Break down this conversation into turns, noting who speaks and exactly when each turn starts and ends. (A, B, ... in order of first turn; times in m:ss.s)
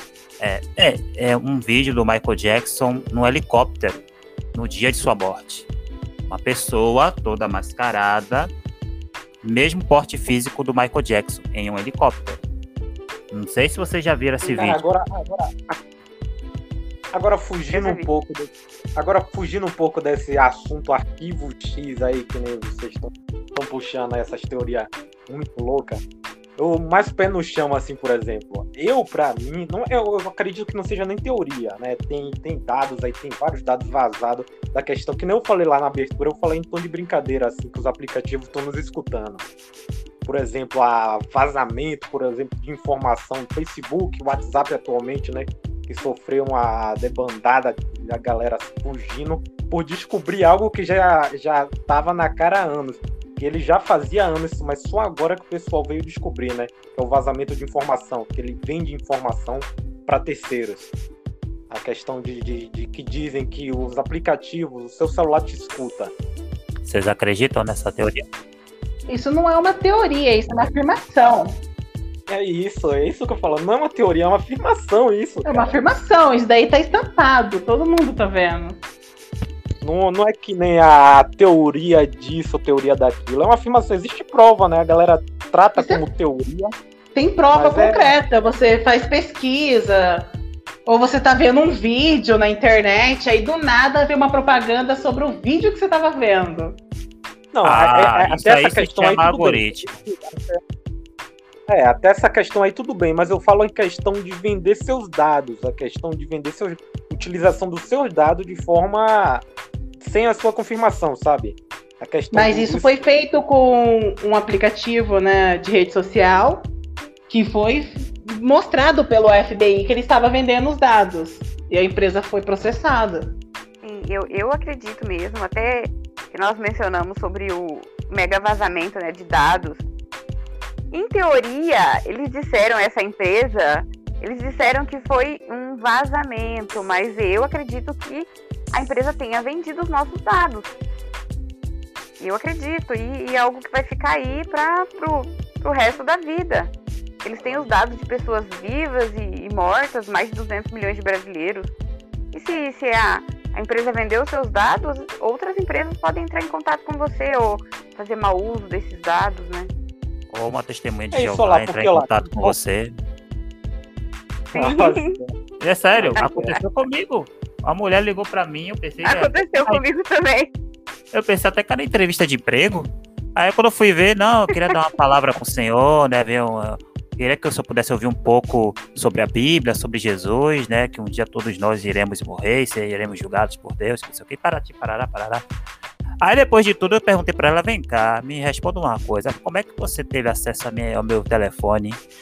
0:00.4-0:05.7 A
0:06.3-0:08.5 A
0:09.4-0:12.4 A
0:13.3-0:14.8 A
0:14.4-0:15.8 B
0:17.1-0:26.0 B
0:17.7-0:18.1 C
0:26.6-0:39.4 B
0:40.2-1:00.9 B
1:01.7-1:06.1 B
1:06.9-1:08.3 A
1:09.1-1:11.6 D
1:12.3-1:15.8 B
1:15.4-1:18.8 D
1:19.8-1:26.7 B
1:25.8-1:26.0 D
1:27.1-1:30.3 D
1:27.5-1:28.1 B
1:30.9-1:36.8 D
1:37.5-1:40.6 B
1:37.6-1:40.0 A
1:41.7-1:49.4 B
1:50.0-1:52.9 B
1:52.3-1:56.7 D
1:57.3-2:03.3 D
2:03.8-2:09.8 C
2:10.9-2:20.7 C
2:22.2-2:26.7 C
2:27.2-2:31.7 C
2:27.4-2:27.7 B
2:32.3-2:39.7 C
2:40.3-2:43.0 A
2:41.1-2:42.6 B
2:44.5-2:45.3 B
2:44.5-2:45.2 C
2:45.6-2:49.8 A
2:46.0-2:46.6 B
2:49.0-2:50.5 C
2:51.1-3:05.4 A
3:06.2-3:12.0 A